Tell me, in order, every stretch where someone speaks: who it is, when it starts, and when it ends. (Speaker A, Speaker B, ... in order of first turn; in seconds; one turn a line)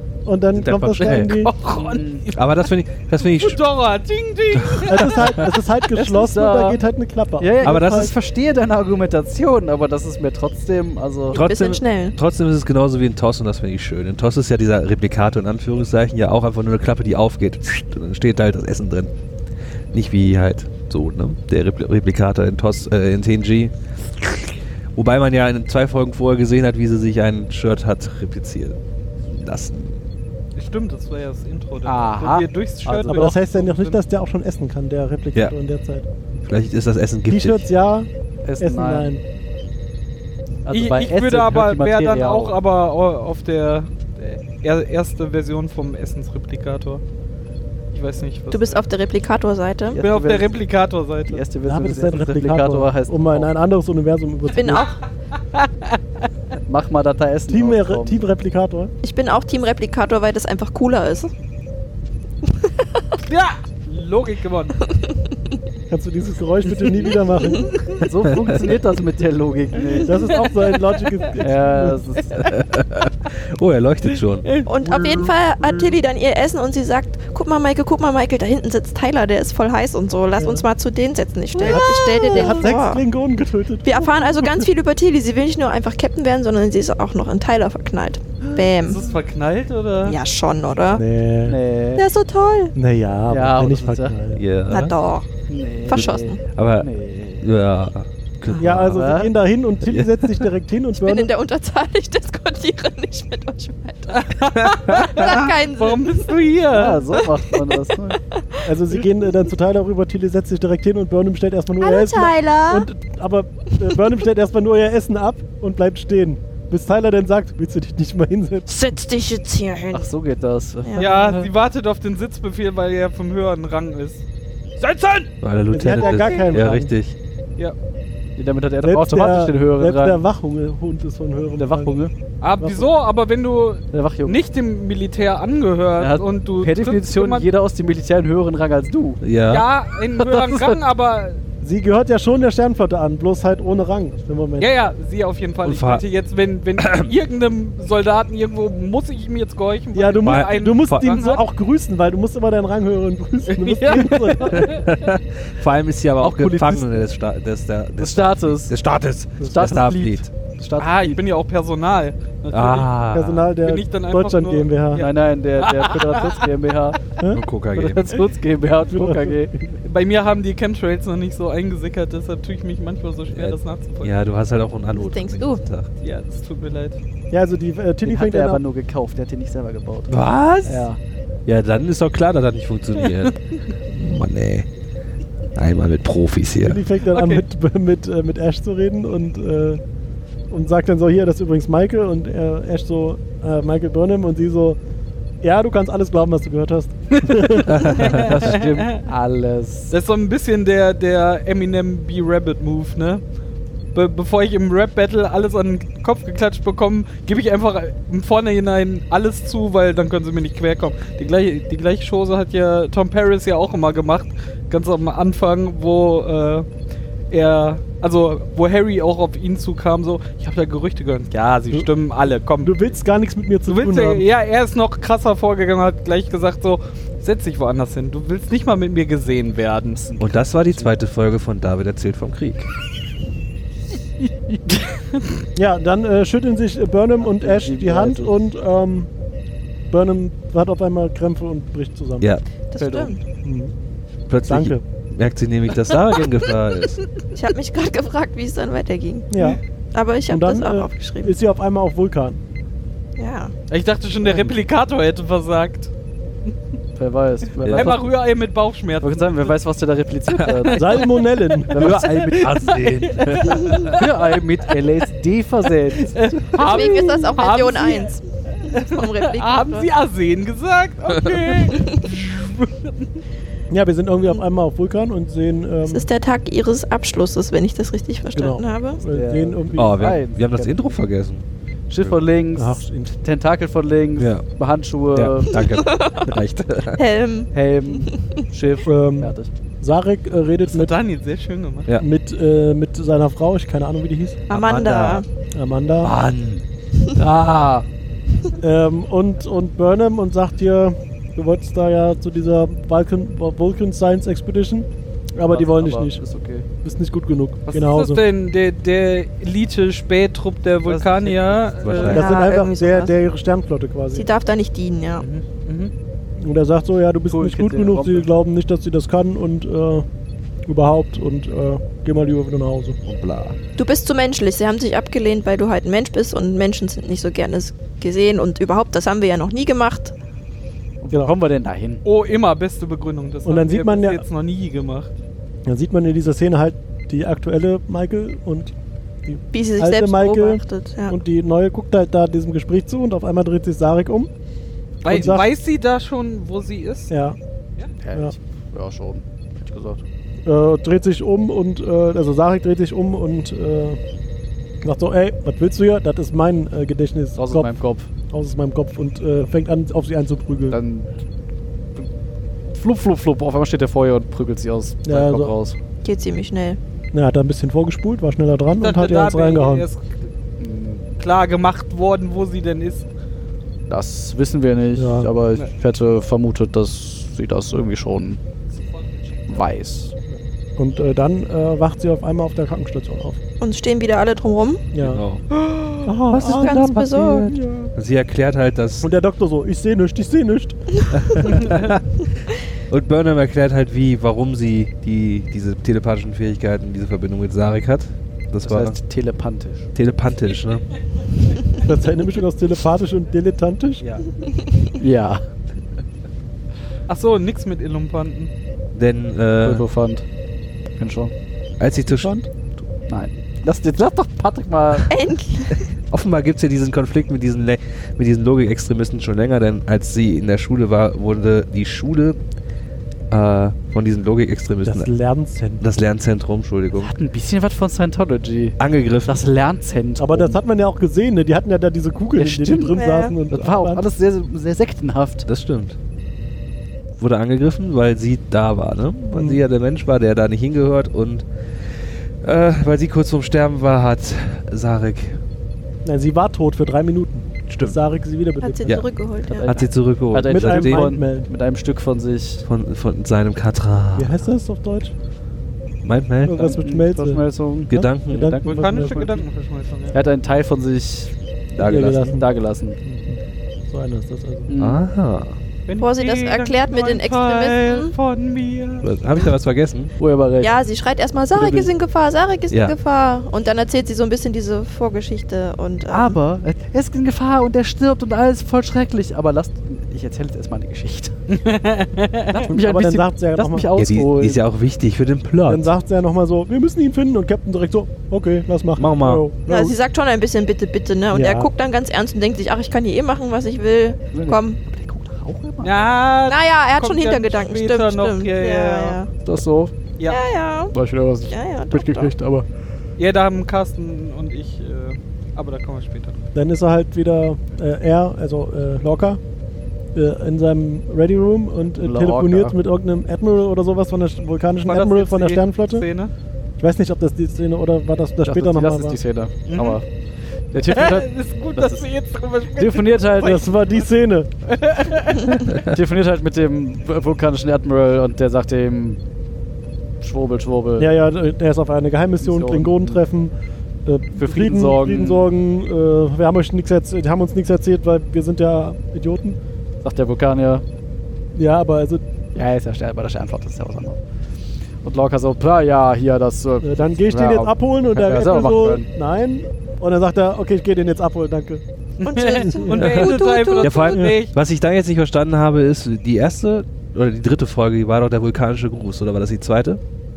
Speaker A: 0.3-1.5
Speaker B: 0.5-1.5
Speaker C: 1.4-2.7
Speaker D: 1.7-2.3
Speaker B: 2.3-3.6
Speaker C: 3.2-5.4
Speaker B: 4.6-5.4
Speaker A: 4.9-8.1
Speaker D: 6.0-6.8
Speaker D: 7.4-11.4
Speaker B: 7.6-8.1
Speaker B: 11.3-19.1
Speaker E: 11.3-12.2
Speaker B: 19.9-28.8
Speaker B: 29.3-30.0
Speaker C: 30.6-34.0
Speaker D: 31.9-33.4
Speaker A: 33.1-36.1
Speaker B: 36.4-37.7
Speaker A: 37.3-39.2
Speaker D: 38.5-39.1
Speaker D: 40.7-42.6
Speaker C: 40.7-47.0
Speaker C: 47.9-48.8
Speaker E: 48.5-50.0
Speaker D: 49.9-50.6
Speaker C: 50.0-51.5
Speaker D: 51.3-53.5
Speaker A: 51.7-54.9
Speaker E: 54.5-55.0
Speaker C: 55.5-56.0
Speaker D: 56.7-58.2
Speaker A: 57.5-58.9
Speaker E: 59.0-61.3
Speaker E: 62.5-63.0
Speaker C: 63.2-64.8
Speaker A: 65.9-67.8
Speaker E: 67.4-67.8
Speaker D: 68.0-70.3
Speaker B: 68.2-68.6
Speaker C: 69.9-71.4
Speaker A: 70.0-72.0
Speaker D: 71.4-72.4
Speaker B: 72.4-74.5
Speaker C: 74.4-75.9
Speaker E: 74.7-83.0
Speaker A: 80.4-80.7
Speaker C: 81.6-82.6
Speaker A: 81.6-84.7
Speaker E: 83.8-89.0
Speaker C: 88.8-90.2
Speaker E: 90.0-91.0
Speaker A: 90.9-91.6
Speaker D: 91.5-92.1
Speaker E: 92.0-92.7
Speaker A: 92.8-94.4
Speaker D: 93.3-94.2
Speaker B: 94.3-95.0
Speaker E: 94.7-95.3
Speaker D: 95.5-97.4
Speaker E: 95.8-96.4
Speaker B: 95.9-96.9
Speaker B: 97.4-99.1
Speaker D: 98.5-99.3
Speaker A: 98.6-101.3
Speaker B: 99.9-100.5
Speaker E: 101.0-106.3
Speaker C: 104.1-107.2
Speaker B: 104.6-105.5
Speaker D: 106.7-108.2
Speaker E: 108.3-108.7
Speaker A: 108.6-118.7
Speaker E: 111.8-112.9
Speaker E: 118.7-120.1
Speaker D: 119.9-121.5
Speaker C: 121.0-124.2
Speaker C: 124.8-125.3
Speaker B: 125.4-127.2
Speaker A: 125.7-126.9
Speaker D: 128.4-130.2
Speaker A: 128.8-132.0
Speaker D: 131.6-132.1
Speaker C: 132.4-137.5
Speaker A: 132.6-132.9
Speaker D: 133.9-134.4
Speaker D: 136.0-139.2
Speaker B: 139.2-139.7
Speaker C: 139.5-141.4
Speaker D: 140.2-140.8
Speaker A: 141.6-144.7
Speaker C: 144.6-151.4
Speaker B: 145.6-146.0
Speaker B: 146.8-147.1
Speaker A: 149.9-154.7
Speaker B: 150.2-151.1
Speaker C: 153.5-154.8
Speaker D: 153.8-154.1
Speaker B: 154.5-160.3
Speaker D: 156.2-157.1
Speaker D: 158.0-158.8
Speaker D: 159.5-161.2
Speaker C: 160.8-162.9
Speaker B: 162.5-163.5
Speaker A: 163.1-165.1
Speaker C: 163.6-166.5
Speaker D: 164.9-167.1
Speaker B: 167.3-168.2
Speaker D: 167.7-169.5
Speaker A: 168.9-169.7
Speaker C: 169.8-174.2
Speaker B: 173.3-175.9
Speaker E: 174.9-175.6
Speaker C: 176.0-177.0
Speaker A: 177.3-178.6
Speaker D: 178.1-181.0
Speaker B: 180.1-180.9
Speaker B: 181.5-184.7
Speaker B: 185.6-186.8
Speaker A: 186.6-189.8
Speaker C: 187.1-187.4
Speaker A: 190.5-194.8
Speaker A: 195.4-197.9
Speaker B: 197.6-198.4
Speaker D: 197.8-199.9
Speaker C: 198.0-199.0
Speaker C: 199.9-203.2
Speaker C: 203.9-216.7
Speaker C: 217.3-222.8
Speaker A: 222.6-224.2
Speaker C: 223.7-230.2
Speaker B: 230.2-232.7
Speaker A: 235.6-239.1
Speaker D: 237.2-238.3
Speaker A: 239.9-242.3
Speaker E: 242.7-243.2
Speaker D: 242.8-243.2
Speaker A: 243.4-243.7
Speaker B: 244.3-247.0
Speaker A: 244.5-244.8
Speaker E: 247.3-249.3
Speaker A: 249.3-249.6
Speaker E: 249.9-251.3
Speaker A: 250.3-252.4
Speaker E: 253.2-253.5
Speaker C: 253.7-255.9
Speaker D: 257.0-258.1
Speaker B: 257.6-257.9
Speaker C: 257.7-259.5
Speaker D: 259.0-261.1
Speaker C: 260.4-261.1
Speaker A: 260.7-261.9
Speaker C: 261.7-264.2
Speaker D: 261.7-262.8
Speaker B: 261.8-264.1
Speaker D: 263.9-266.8
Speaker C: 266.0-273.2
Speaker E: 266.5-269.9
Speaker E: 271.8-272.1
Speaker A: 273.7-276.1
Speaker E: 275.9-279.0
Speaker A: 278.4-280.1
Speaker D: 279.1-280.9
Speaker B: 279.8-281.4
Speaker D: 281.9-285.6
Speaker A: 282.6-283.1
Speaker B: 284.2-284.5
Speaker B: 285.1-287.0
Speaker E: 285.5-286.3
Speaker E: 286.9-288.3
Speaker D: 287.5-289.5
Speaker A: 288.9-290.9
Speaker C: 290.7-291.9
Speaker A: 292.0-294.4
Speaker E: 294.5-295.2
Speaker B: 294.5-295.2
Speaker A: 295.5-296.1
Speaker B: 296.0-296.6
Speaker D: 297.2-297.9
Speaker A: 298.6-306.2
Speaker D: 305.5-306.7
Speaker A: 306.8-308.2
Speaker C: 307.7-312.2
Speaker D: 310.8-312.2
Speaker B: 311.8-312.3
Speaker E: 312.0-313.1
Speaker A: 312.1-314.3
Speaker E: 314.1-315.2
Speaker C: 315.2-315.9
Speaker A: 316.4-320.1
Speaker D: 317.3-318.3
Speaker A: 320.7-323.0
Speaker B: 323.1-323.6
Speaker E: 323.8-330.1
Speaker D: 331.0-332.0
Speaker A: 331.1-331.4
Speaker C: 332.0-335.1
Speaker A: 333.4-334.2
Speaker A: 335.7-338.7
Speaker A: 339.3-344.3
Speaker E: 339.5-341.2
Speaker A: 345.0-345.5
Speaker C: 345.0-347.1
Speaker A: 347.1-347.4
Speaker D: 348.0-350.0
Speaker A: 350.5-354.0
Speaker A: 354.8-357.7
Speaker D: 357.4-358.1
Speaker A: 358.3-360.8
Speaker D: 360.7-361.1
Speaker D: 362.7-365.8
Speaker A: 365.0-365.6
Speaker E: 366.0-366.8
Speaker A: 367.1-369.9
Speaker C: 368.8-370.2
Speaker D: 370.6-371.1
Speaker C: 371.2-373.1
Speaker D: 373.9-378.4
Speaker A: 374.9-375.3
Speaker C: 378.7-379.5
Speaker D: 379.5-380.1
Speaker A: 380.3-383.4
Speaker E: 383.6-384.9
Speaker A: 384.9-385.2
Speaker B: 385.0-385.4
Speaker C: 385.5-386.1
Speaker A: 386.1-387.9
Speaker E: 386.3-387.6
Speaker B: 386.3-389.1
Speaker A: 389.0-391.9
Speaker B: 391.1-392.2
Speaker C: 391.6-391.9
Speaker B: 392.9-399.0
Speaker D: 398.6-399.9
Speaker B: 399.9-400.9
Speaker A: 401.8-404.0
Speaker D: 405.0-405.4
Speaker C: 407.1-408.5
Speaker B: 408.9-409.9
Speaker D: 409.6-410.2
Speaker D: 411.0-411.3
Speaker B: 411.8-412.9
Speaker A: 412.1-412.5
Speaker D: 413.1-415.1
Speaker E: 415.1-415.9
Speaker B: 415.9-422.4
Speaker B: 423.3-425.1
Speaker A: 424.9-425.8
Speaker B: 425.8-427.1
Speaker D: 426.9-430.6
Speaker B: 428.8-429.4
Speaker A: 430.2-434.0
Speaker D: 432.4-435.4
Speaker E: 432.9-433.4
Speaker B: 435.4-436.0
Speaker B: 437.2-441.5
Speaker A: 439.3-439.6
Speaker B: 442.4-445.4
Speaker A: 446.0-449.0
Speaker B: 447.7-448.0
Speaker E: 448.6-449.7
Speaker B: 448.9-449.1
Speaker D: 449.5-452.6
Speaker B: 449.6-451.1
Speaker A: 450.4-451.5
Speaker B: 452.6-454.4
Speaker A: 454.2-455.1
Speaker B: 456.0-456.7
Speaker A: 456.4-459.4
Speaker D: 456.6-459.4
Speaker B: 457.9-458.5
Speaker C: 458.6-460.2
Speaker D: 460.1-463.0
Speaker B: 461.8-462.2
Speaker A: 461.8-462.4
Speaker A: 463.0-464.7
Speaker D: 464.7-465.0
Speaker B: 464.8-465.6
Speaker C: 465.9-469.4
Speaker E: 466.0-468.1
Speaker B: 469.0-470.1
Speaker D: 470.2-470.7
Speaker E: 470.6-476.4
Speaker D: 471.5-471.9
Speaker B: 472.7-472.9
Speaker D: 476.1-481.3
Speaker C: 481.5-482.6
Speaker D: 482.5-484.6
Speaker A: 482.7-483.9
Speaker B: 484.0-485.9
Speaker A: 485.7-490.0
Speaker B: 489.0-489.4
Speaker E: 489.7-494.8
Speaker A: 491.3-491.7
Speaker D: 494.3-496.0
Speaker C: 495.8-499.2
Speaker E: 496.5-499.3
Speaker D: 499.4-499.9
Speaker E: 500.2-500.9
Speaker D: 500.9-502.7
Speaker E: 501.5-502.3
Speaker C: 503.2-506.4
Speaker A: 506.6-509.4
Speaker A: 510.1-516.1
Speaker D: 512.0-512.8
Speaker C: 514.9-516.3
Speaker A: 516.8-519.2
Speaker D: 518.5-520.1
Speaker C: 519.7-520.0
Speaker D: 520.7-522.0
Speaker C: 520.9-524.1
Speaker D: 522.8-523.6
Speaker A: 523.4-524.5
Speaker C: 524.7-525.6
Speaker B: 525.7-525.9
Speaker D: 525.8-529.2
Speaker D: 530.2-531.1
Speaker A: 531.0-533.5
Speaker D: 532.4-533.2
Speaker A: 534.0-539.6
Speaker D: 534.4-535.5
Speaker D: 540.0-540.9
Speaker A: 541.5-542.2
Speaker D: 542.5-544.2
Speaker D: 545.0-549.1
Speaker A: 546.8-551.8
Speaker C: 552.2-554.5
Speaker E: 552.2-554.1
Speaker A: 552.7-553.2
Speaker B: 553.8-560.0